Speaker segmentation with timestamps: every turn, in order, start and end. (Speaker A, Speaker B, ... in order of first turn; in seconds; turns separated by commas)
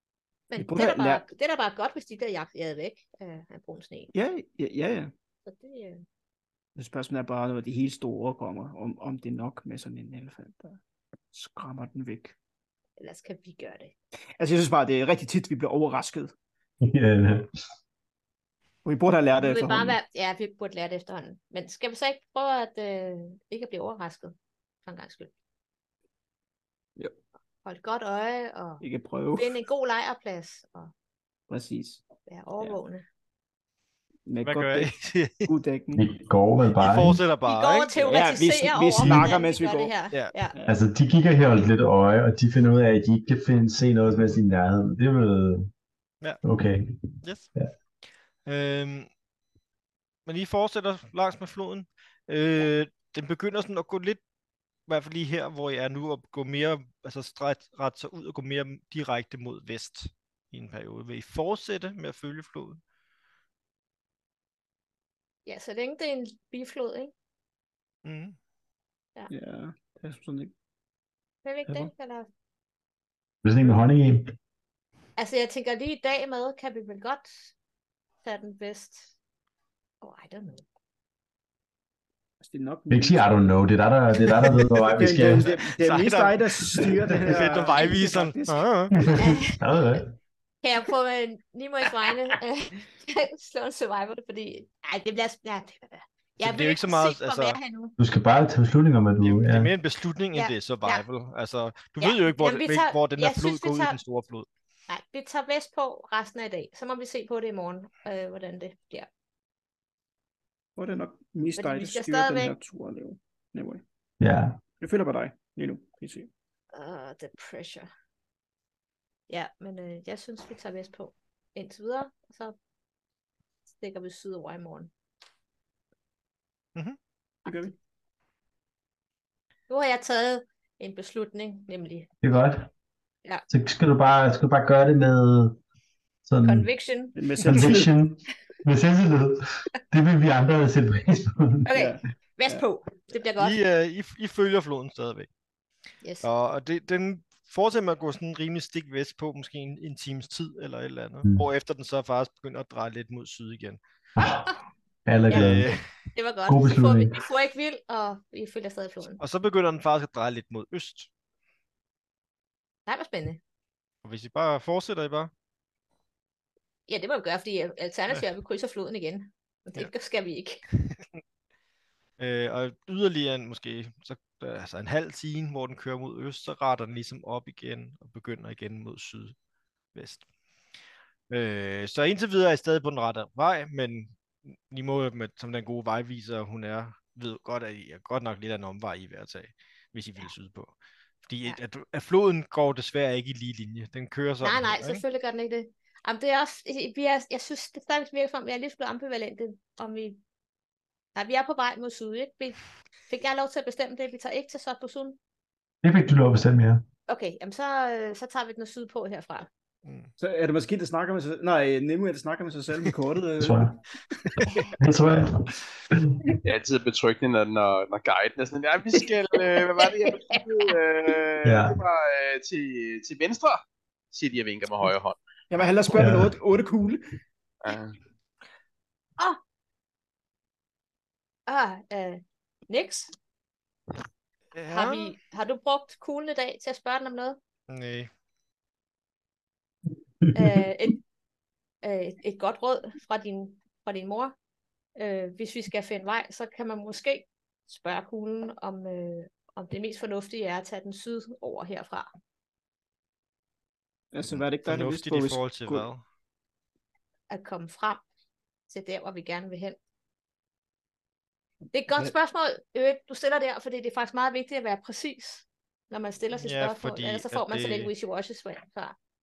Speaker A: 0.5-4.1, Speaker B: 0.6-1.2, Speaker B: 4.1-5.1, Speaker A: 5.4-6.0, Speaker B: 6.8-10.8, Speaker B: 11.3-12.4, Speaker A: 13.0-13.9, Speaker B: 14.4-16.3, Speaker C: 16.8-17.5, Speaker B: 18.8-20.0, Speaker A: 19.4-25.3, Speaker A: 27.6-30.9, Speaker B: 28.8-29.6, Speaker B: 31.5-32.0, Speaker A: 32.3-33.0, Speaker B: 34.2-34.9, Speaker D: 34.4-35.5, Speaker B: 35.5-36.1, Speaker C: 35.9-37.2, Speaker D: 36.8-38.2, Speaker A: 37.5-40.6, Speaker B: 38.0-39.9, Speaker C: 39.0-39.3, Speaker C: 40.6-45.7, Speaker C: 46.4-47.0, Speaker D: 47.2-47.5, Speaker D: 48.5-49.1, Speaker D: 50.2-54.2, Speaker D: 54.9-62.8, Speaker A: 65.5-67.1, Speaker D: 68.0-68.4, Speaker B: 69.3-70.5, Speaker A: 71.4-72.3, Speaker C: 73.4-74.3, Speaker A: 75.2-77.5, Speaker A: 78.2-79.1, Speaker A: 80.0-80.6, Speaker B: 82.4-83.3, Speaker C: 82.9-85.5, Speaker B: 84.5-88.7, Speaker D: 85.2-89.0, Speaker C: 88.9-90.1, Speaker A: 89.2-89.6, Speaker A: 90.6-97.9, Speaker D: 96.4-97.6, Speaker C: 98.0-99.7, Speaker D: 99.2-104.5, Speaker A: 100.3-101.0, Speaker A: 102.0-104.0, Speaker A: 104.9-109.1, Speaker B: 110.8-113.8, Speaker A: 111.6-112.5, Speaker C: 114.2-114.6, Speaker B: 114.8-116.3, Speaker A: 116.7-117.9, Speaker A: 119.3-122.6, Speaker A: 123.8-124.9, Speaker A: 127.4-127.7, Speaker B: 127.5-127.7, Speaker A: 129.7-132.1, Speaker C: 132.2-132.7, Speaker C: 133.5-135.6, Speaker C: 136.2-136.7, Speaker A: 136.4-137.2, Speaker B: 137.2-137.9, Speaker C: 137.4-141.7, Speaker A: 141.6-143.6, Speaker B: 141.7-142.6, Speaker D: 143.4-145.3, Speaker A: 146.0-146.3, Speaker D: 146.2-153.8, Speaker C: 154.2-154.5, Speaker C: 155.1-155.7, Speaker A: 155.3-155.6, Speaker D: 155.3-155.8, Speaker A: 156.1-159.2, Speaker C: 156.5-157.2, Speaker D: 159.2-161.1, Speaker A: 162.9-163.4, Speaker D: 164.0-165.3, Speaker A: 166.9-170.6, Speaker D: 172.2-179.3, Speaker D: 179.9-180.2, Speaker D: 181.3-190.7, Speaker D: 191.2-195.0, Speaker A: 194.4-200.2, Speaker A: 201.1-202.6, Speaker A: 203.1-205.2, Speaker C: 205.8-206.8, Speaker A: 207.1-209.5, Speaker D: 209.8-210.1, Speaker B: 210.2-213.7, Speaker C: 213.4-213.8, Speaker D: 214.4-214.7, Speaker C: 214.8-216.2, Speaker E: 216.4-225.2, Speaker A: 220.0-220.4, Speaker C: 221.4-221.8, Speaker B: 225.5-227.0, Speaker C: 225.9-226.3, Speaker E: 227.6-227.9, Speaker A: 231.5-233.1, Speaker D: 234.5-235.1, Speaker A: 234.7-237.4, Speaker D: 237.7-238.1, Speaker A: 240.3-241.0, Speaker A: 241.8-244.3, Speaker A: 244.9-252.1, Speaker B: 254.1-255.9, Speaker D: 254.3-256.0, Speaker A: 257.3-258.0, Speaker A: 258.7-259.8, Speaker A: 261.7-268.9, Speaker D: 266.4-267.9